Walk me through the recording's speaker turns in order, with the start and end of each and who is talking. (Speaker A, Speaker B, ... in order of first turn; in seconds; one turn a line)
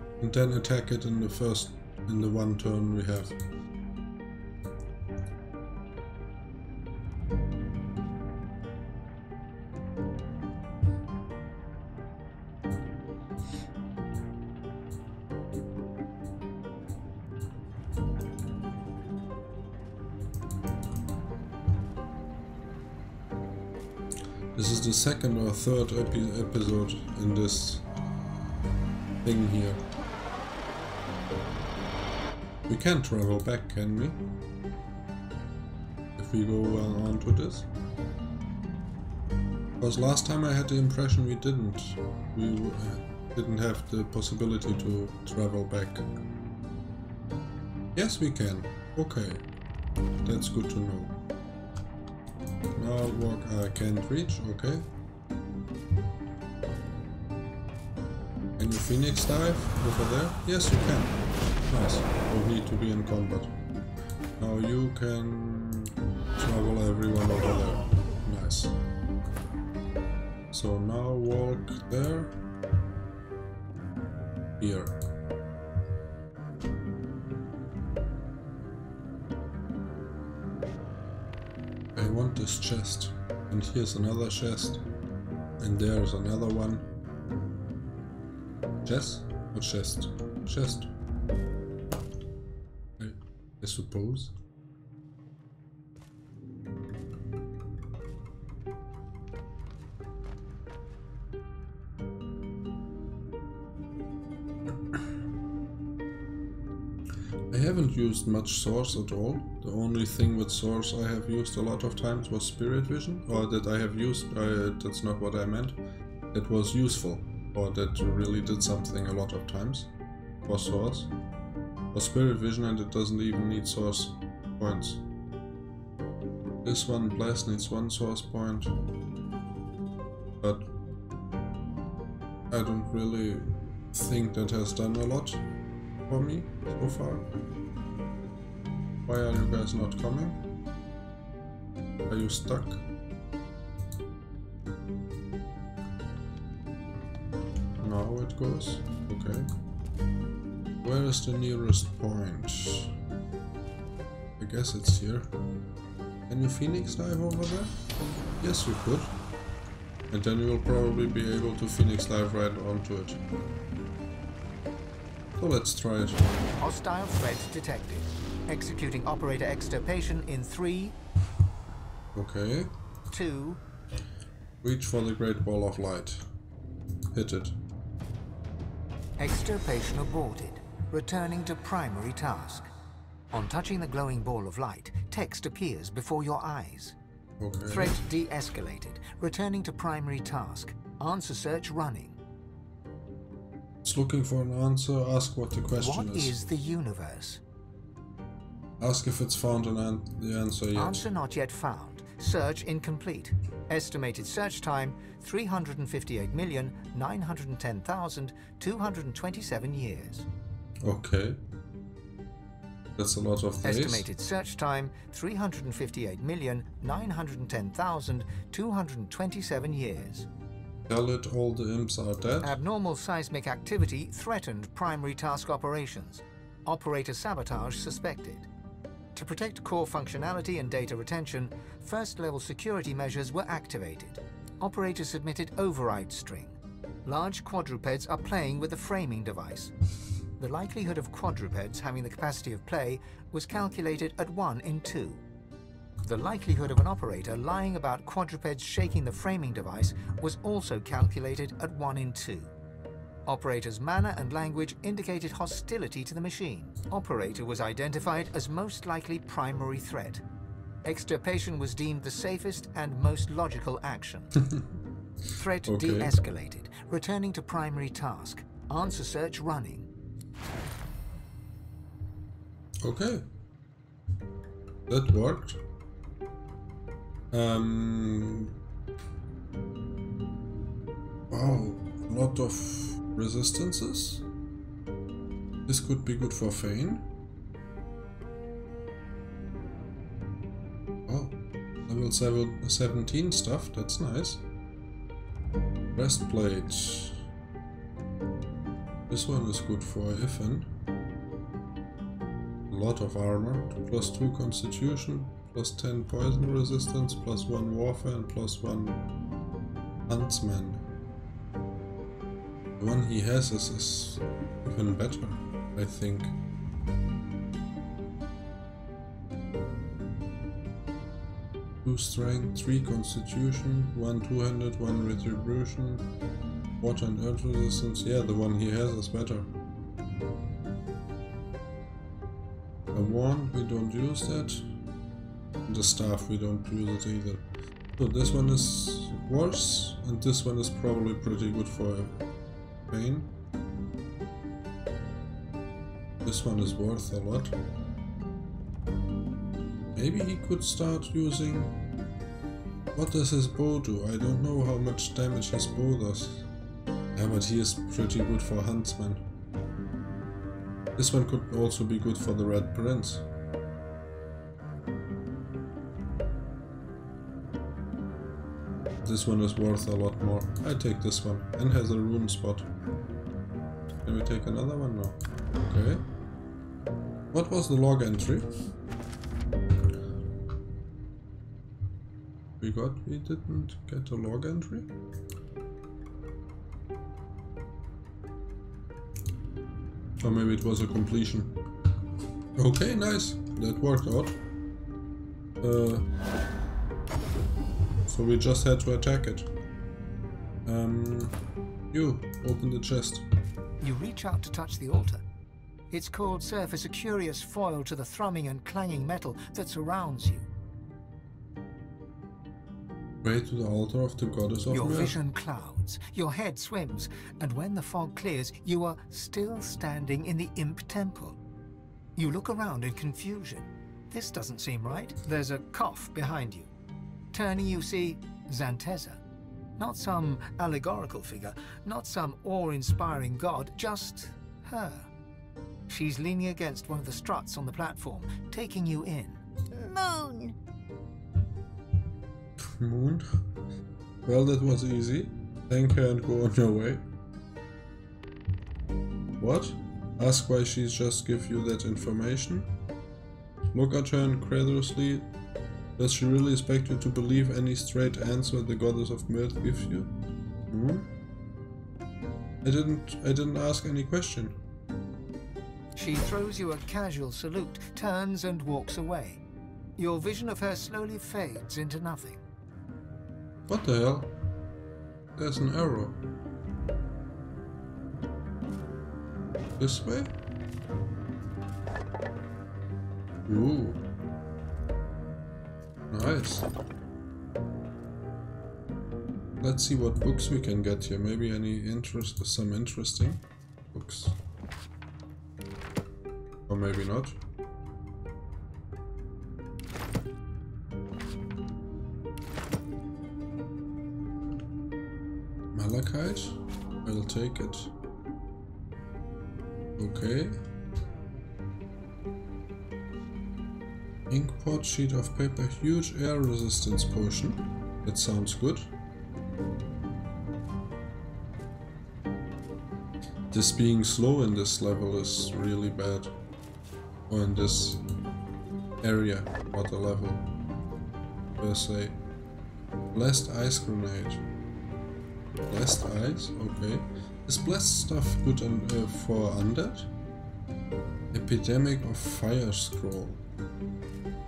Speaker A: 0.2-3.4
Speaker A: 24.6-27.9
Speaker A: 29.2-29.8
Speaker A: 32.7-34.2
Speaker A: 36.2-37.7
Speaker A: 39.8-46.1
Speaker A: 48.0-49.4
Speaker A: 50.2-51.2
Speaker A: 52.8-54.9
Speaker A: 58.6-63.5
Speaker A: 64.4-68.8
Speaker A: 70.5-72.3
Speaker A: 74.6-75.0
Speaker A: 82.0-84.8
Speaker A: 85.6-86.9
Speaker A: 88.8-90.9
Speaker A: 93.0-94.3
Speaker A: 107.5-115.8
Speaker A: 116.3-119.9
Speaker A: 120.5-121.1
Speaker A: 121.9-125.0
Speaker A: 126.6-128.8
Speaker A: 130.4-130.7
Speaker A: 132.5-135.4
Speaker A: 136.1-137.3
Speaker A: 139.1-140.4
Speaker A: 142.1-142.8
Speaker A: 147.8-149.5
Speaker A: 150.8-152.9
Speaker A: 154.4-155.3
Speaker A: 156.3-157.7
Speaker A: 158.4-159.1
Speaker A: 160.1-163.2
Speaker A: 165.4-166.2
Speaker B: 166.6-171.0
Speaker A: 172.2-172.7
Speaker B: 173.1-173.6
Speaker A: 174.6-176.2
Speaker A: 177.1-177.6
Speaker B: 179.2-182.7
Speaker B: 183.3-187.0
Speaker A: 187.4-188.0
Speaker B: 187.7-192.2
Speaker A: 193.8-196.4
Speaker B: 195.8-197.4
Speaker A: 198.8-201.1
Speaker B: 200.8-210.3
Speaker A: 210.8-211.4
Speaker A: 213.0-214.1
Speaker B: 213.6-220.3
Speaker A: 220.9-222.6
Speaker B: 222.4-228.5
Speaker B: 229.2-239.7
Speaker B: 240.4-245.2
Speaker B: 246.0-252.5
Speaker B: 253.3-260.2
Speaker B: 260.8-264.3
Speaker B: 265.3-269.9
Speaker A: 265.7-266.2
Speaker A: 272.8-273.3
Speaker A: 274.9-275.6
Speaker A: 277.3-278.5
Speaker A: 281.3-284.2
Speaker A: 285.7-287.1
Speaker A: 291.1-294.4
Speaker A: 295.9-297.2
Speaker A: 299.1-300.7
Speaker A: 302.7-309.0
Speaker A: 310.1-310.8
Speaker A: 312.8-316.4
Speaker A: 321.8-326.1
Speaker A: 326.8-329.5
Speaker A: 332.9-334.7
Speaker A: 335.7-337.4
Speaker A: 338.0-342.2
Speaker A: 342.9-343.3
Speaker A: 346.2-347.6
Speaker A: 350.0-351.8
Speaker A: 352.9-356.5
Speaker A: 357.2-359.3
Speaker A: 361.0-363.2
Speaker A: 369.0-372.7
Speaker A: 374.0-376.0
Speaker A: 377.3-378.5
Speaker A: 382.6-384.9
Speaker A: 390.2-391.6
Speaker A: 392.6-394.4
Speaker A: 395.6-396.1
Speaker A: 398.1-399.5
Speaker A: 400.7-401.4
Speaker A: 401.9-403.3
Speaker B: 403.8-405.2
Speaker B: 405.9-410.5
Speaker A: 413.2-415.2
Speaker B: 414.7-421.4
Speaker B: 422.2-426.7
Speaker B: 427.3-429.2
Speaker B: 429.8-435.1
Speaker B: 435.9-440.5
Speaker A: 442.6-443.3
Speaker A: 444.3-447.1
Speaker A: 449.4-452.7
Speaker A: 453.7-455.3
Speaker A: 456.0-460.1
Speaker A: 460.7-461.1
Speaker A: 462.6-464.6
Speaker B: 465.9-469.4
Speaker B: 470.0-472.4
Speaker A: 473.7-474.4
Speaker A: 475.4-476.2
Speaker A: 479.8-480.3
Speaker A: 483.5-484.0
Speaker A: 486.1-486.7
Speaker A: 489.6-494.4
Speaker A: 496.7-497.4
Speaker A: 505.7-507.9
Speaker A: 510.0-510.6
Speaker A: 514.3-518.9
Speaker A: 523.5-526.3
Speaker A: 527.3-528.0
Speaker A: 529.0-530.5
Speaker A: 531.6-532.2
Speaker A: 533.1-534.4
Speaker A: 535.7-540.1
Speaker A: 541.3-543.4